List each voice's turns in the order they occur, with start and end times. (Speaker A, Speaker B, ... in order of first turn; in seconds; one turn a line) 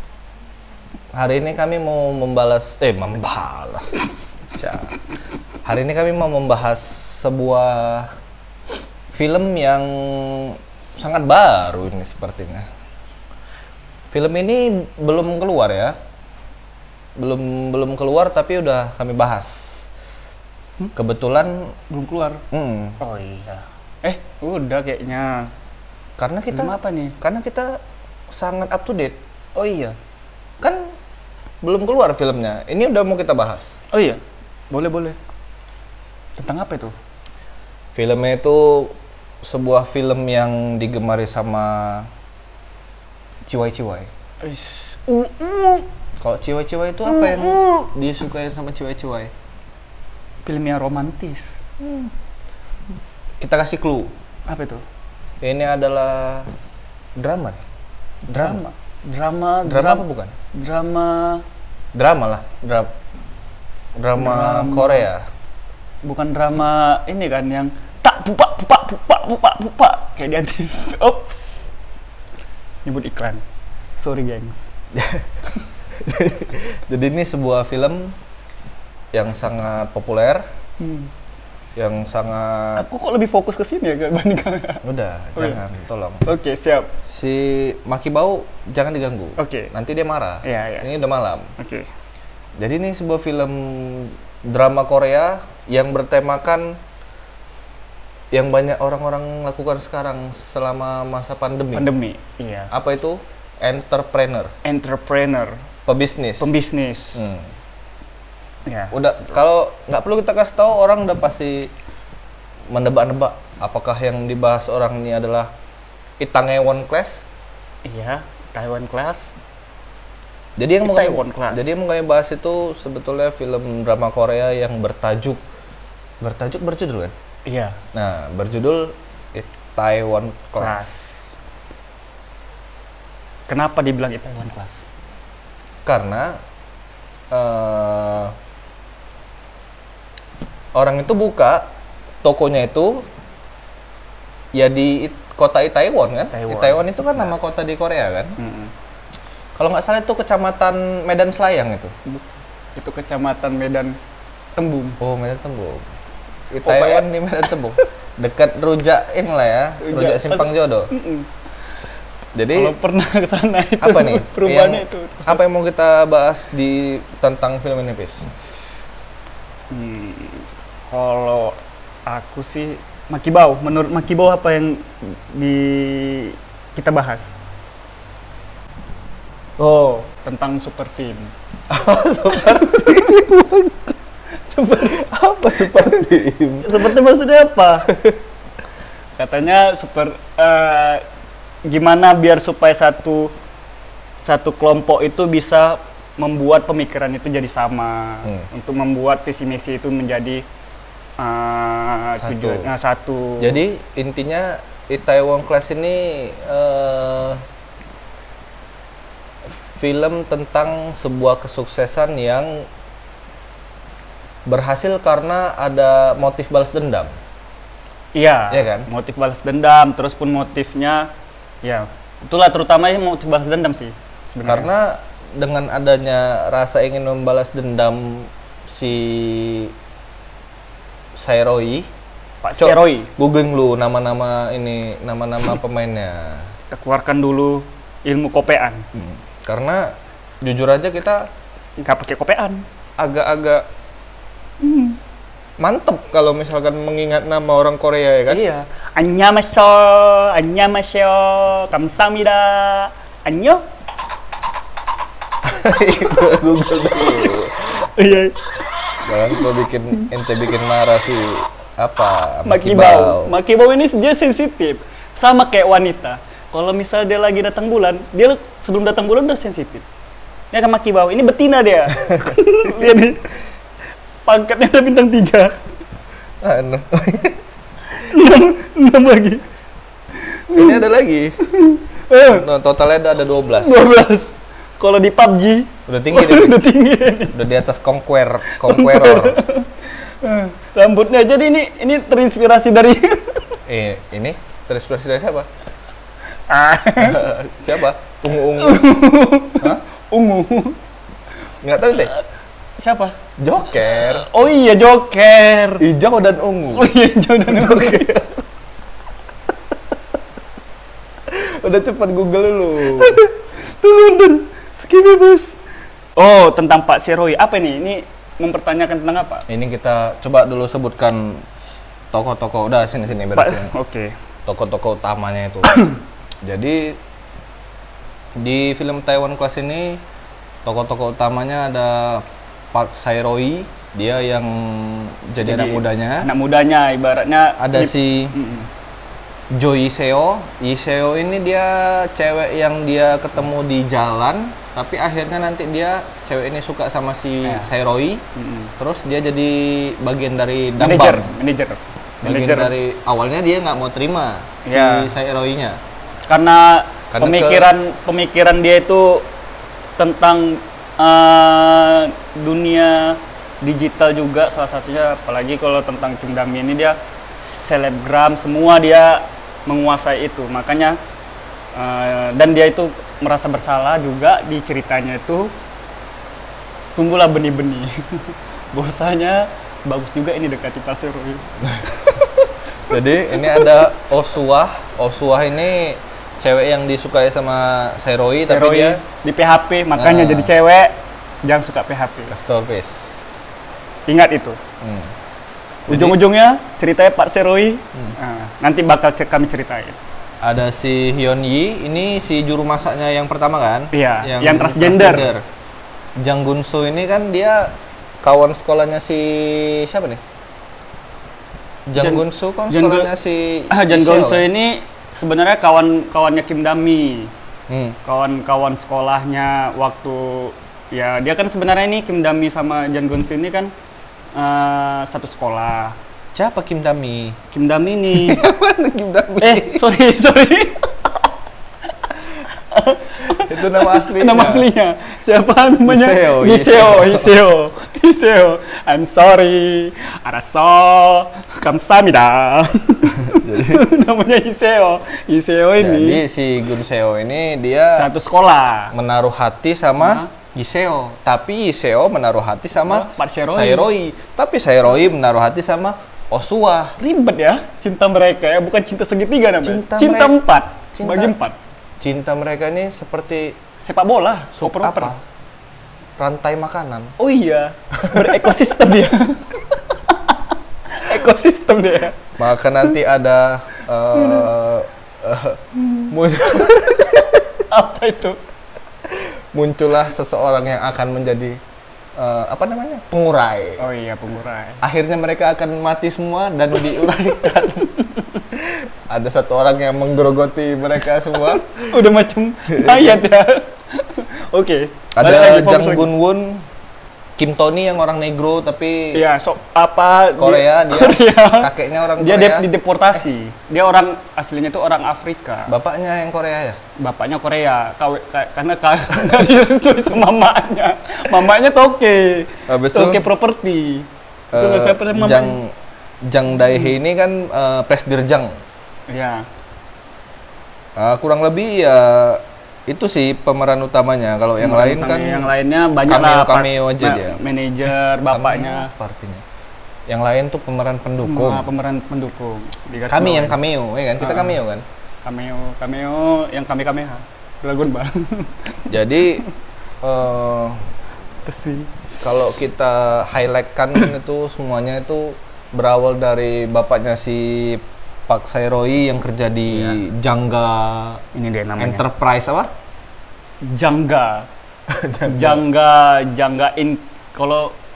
Speaker A: 1.1-5.0
Speaker A: 5.7-8.1
Speaker A: 9.1-12.7
Speaker A: 14.1-16.0
Speaker A: 17.2-19.9
Speaker A: 20.9-21.8
Speaker B: 21.9-22.4
Speaker A: 22.5-23.0
Speaker B: 23.0-25.5
Speaker A: 26.2-29.2
Speaker B: 26.5-27.2
Speaker B: 29.6-30.0
Speaker A: 30.6-30.9
Speaker A: 31.6-33.8
Speaker B: 33.9-34.2
Speaker B: 34.7-35.2
Speaker B: 36.4-37.0
Speaker A: 38.0-42.1
Speaker A: 43.5-44.1
Speaker B: 44.4-45.9
Speaker A: 46.2-49.3
Speaker B: 47.1-47.6
Speaker B: 50.5-51.6
Speaker A: 51.8-52.1
Speaker A: 53.4-54.1
Speaker B: 54.5-54.9
Speaker A: 55.4-56.5
Speaker A: 57.2-57.6
Speaker B: 58.3-61.5
Speaker A: 58.3-58.6
Speaker A: 59.6-60.4
Speaker A: 61.9-62.9
Speaker A: 64.0-65.2
Speaker B: 64.2-65.1
Speaker B: 66.0-71.7
Speaker B: 72.8-73.4
Speaker B: 74.0-74.7
Speaker A: 74.9-75.3
Speaker A: 76.0-78.2
Speaker A: 79.1-80.4
Speaker B: 80.8-81.1
Speaker A: 81.8-82.9
Speaker B: 82.8-84.8
Speaker A: 84.8-86.2
Speaker B: 85.4-85.6
Speaker B: 86.2-86.9
Speaker A: 87.1-91.5
Speaker B: 89.4-89.7
Speaker B: 90.4-90.9
Speaker B: 91.6-91.9
Speaker A: 92.6-96.8
Speaker A: 98.3-101.9
Speaker B: 101.7-102.7
Speaker A: 102.7-104.5
Speaker B: 104.6-105.6
Speaker A: 105.9-106.5
Speaker B: 106.4-107.2
Speaker A: 107.2-107.5
Speaker B: 108.7-109.0
Speaker A: 108.9-111.7
Speaker A: 112.7-115.5
Speaker A: 116.2-117.3
Speaker B: 117.8-119.3
Speaker A: 120.6-125.4
Speaker B: 120.8-121.7
Speaker A: 126.2-127.1
Speaker B: 127.5-127.8
Speaker A: 127.9-130.9
Speaker B: 130.6-131.3
Speaker B: 133.5-134.8
Speaker A: 135.8-136.4
Speaker A: 137.3-138.3
Speaker A: 140.8-141.7
Speaker A: 142.2-143.1
Speaker A: 144.5-148.4
Speaker B: 146.3-147.3
Speaker B: 148.4-148.7
Speaker A: 149.6-151.9
Speaker B: 152.8-154.0
Speaker B: 154.6-155.0
Speaker A: 155.0-155.9
Speaker A: 156.5-160.9
Speaker B: 156.6-157.9
Speaker B: 159.8-161.3
Speaker A: 162.3-162.8
Speaker B: 162.5-165.4
Speaker A: 163.8-168.3
Speaker B: 169.7-177.3
Speaker B: 179.6-181.3
Speaker A: 181.7-183.7
Speaker B: 182.6-183.3
Speaker B: 184.5-185.0
Speaker A: 184.7-187.0
Speaker B: 186.6-187.9
Speaker A: 187.9-188.2
Speaker B: 189.2-191.0
Speaker B: 191.7-193.3
Speaker B: 194.2-200.4
Speaker B: 201.2-203.6
Speaker A: 202.2-202.7
Speaker A: 203.4-207.4
Speaker A: 209.8-212.7
Speaker A: 214.5-217.1
Speaker B: 218.2-221.1
Speaker A: 218.5-218.9
Speaker B: 221.6-224.7
Speaker A: 224.4-229.7
Speaker A: 231.2-231.9
Speaker B: 232.4-233.1
Speaker A: 232.6-236.5
Speaker B: 236.7-238.9
Speaker A: 238.9-241.3
Speaker B: 241.8-242.6
Speaker A: 243.0-243.7
Speaker B: 244.6-245.0
Speaker A: 245.6-248.4
Speaker B: 248.3-253.6
Speaker A: 255.4-257.9
Speaker B: 257.0-258.5
Speaker A: 259.0-263.4
Speaker B: 262.5-269.9
Speaker B: 270.5-273.3
Speaker A: 272.0-272.4
Speaker B: 274.2-275.6
Speaker A: 276.4-277.4
Speaker B: 278.0-279.4
Speaker B: 280.3-280.8
Speaker A: 280.5-281.4
Speaker B: 281.5-282.5
Speaker A: 282.2-283.9
Speaker B: 283.6-287.4
Speaker A: 285.9-286.6
Speaker A: 287.3-289.4
Speaker B: 288.5-293.6
Speaker A: 293.7-295.5
Speaker B: 296.5-297.2
Speaker A: 297.0-298.9
Speaker B: 298.5-300.8
Speaker A: 301.6-302.1
Speaker B: 302.8-303.2
Speaker A: 303.4-304.3
Speaker B: 303.9-305.9
Speaker A: 305.8-306.9
Speaker B: 306.7-308.3
Speaker A: 307.5-308.3
Speaker A: 311.3-313.2
Speaker B: 312.9-315.6
Speaker B: 316.2-319.5
Speaker A: 319.5-321.4
Speaker A: 322.1-323.7
Speaker B: 323.4-324.1
Speaker A: 324.5-325.8
Speaker B: 325.7-326.0
Speaker A: 326.4-327.0
Speaker A: 328.4-330.0
Speaker A: 330.6-336.3
Speaker B: 335.4-338.7
Speaker A: 337.6-338.4
Speaker A: 339.5-348.2
Speaker B: 347.4-347.7
Speaker B: 348.4-348.7
Speaker A: 348.8-351.3
Speaker B: 350.8-352.7
Speaker A: 352.2-355.8
Speaker B: 354.6-355.1
Speaker B: 356.3-359.3
Speaker A: 357.1-357.7
Speaker B: 360.0-371.0
Speaker B: 371.8-375.5
Speaker B: 377.0-382.5
Speaker A: 382.9-389.0
Speaker B: 388.4-392.3
Speaker A: 389.9-390.6
Speaker A: 392.3-393.2
Speaker B: 394.1-394.6
Speaker A: 394.8-395.1
Speaker B: 395.9-400.0
Speaker A: 395.9-396.2
Speaker A: 400.4-405.4
Speaker B: 403.9-405.3
Speaker A: 406.2-410.2
Speaker A: 411.9-414.5
Speaker B: 411.9-413.1
Speaker B: 413.7-417.3
Speaker A: 417.7-418.0
Speaker B: 418.0-423.7
Speaker B: 424.3-426.0
Speaker A: 426.3-427.4
Speaker B: 427.5-428.4
Speaker A: 428.1-429.9
Speaker B: 429.4-431.2
Speaker B: 432.0-446.2
Speaker A: 433.3-434.7
Speaker A: 435.9-437.4
Speaker A: 443.1-443.9
Speaker A: 445.8-448.1
Speaker B: 447.9-448.9
Speaker A: 448.9-457.0
Speaker B: 450.0-450.3
Speaker B: 452.9-453.9
Speaker B: 457.0-461.6
Speaker A: 459.6-460.4
Speaker A: 460.9-461.4
Speaker A: 462.0-463.6
Speaker B: 463.8-465.1
Speaker A: 464.5-465.2
Speaker A: 466.2-467.1
Speaker B: 467.2-472.2
Speaker A: 468.1-468.6
Speaker A: 472.4-477.4
Speaker B: 474.1-474.5
Speaker B: 475.8-478.4
Speaker A: 479.1-481.6
Speaker A: 482.2-483.8
Speaker B: 483.8-484.8
Speaker A: 484.8-487.9
Speaker B: 487.6-488.4
Speaker A: 488.6-491.8
Speaker B: 491.7-496.1
Speaker A: 492.7-493.2
Speaker A: 495.1-496.6
Speaker A: 497.4-499.2
Speaker B: 499.1-505.8
Speaker A: 500.4-502.7
Speaker A: 505.7-506.8
Speaker B: 507.0-515.6
Speaker A: 512.7-513.3
Speaker A: 514.5-518.5
Speaker B: 516.6-516.9
Speaker B: 519.1-519.5
Speaker A: 521.0-525.5
Speaker B: 524.6-528.9
Speaker A: 526.1-527.4
Speaker A: 528.3-529.4
Speaker A: 530.1-531.7
Speaker B: 531.2-533.6
Speaker A: 533.1-534.9
Speaker B: 534.2-534.6
Speaker B: 535.2-538.8
Speaker A: 538.9-539.5
Speaker A: 540.0-540.8
Speaker B: 541.5-542.0
Speaker A: 542.2-551.2
Speaker B: 549.7-550.0
Speaker B: 551.3-552.0
Speaker A: 551.8-552.7
Speaker B: 553.6-554.5
Speaker A: 554.9-555.6
Speaker B: 555.2-557.8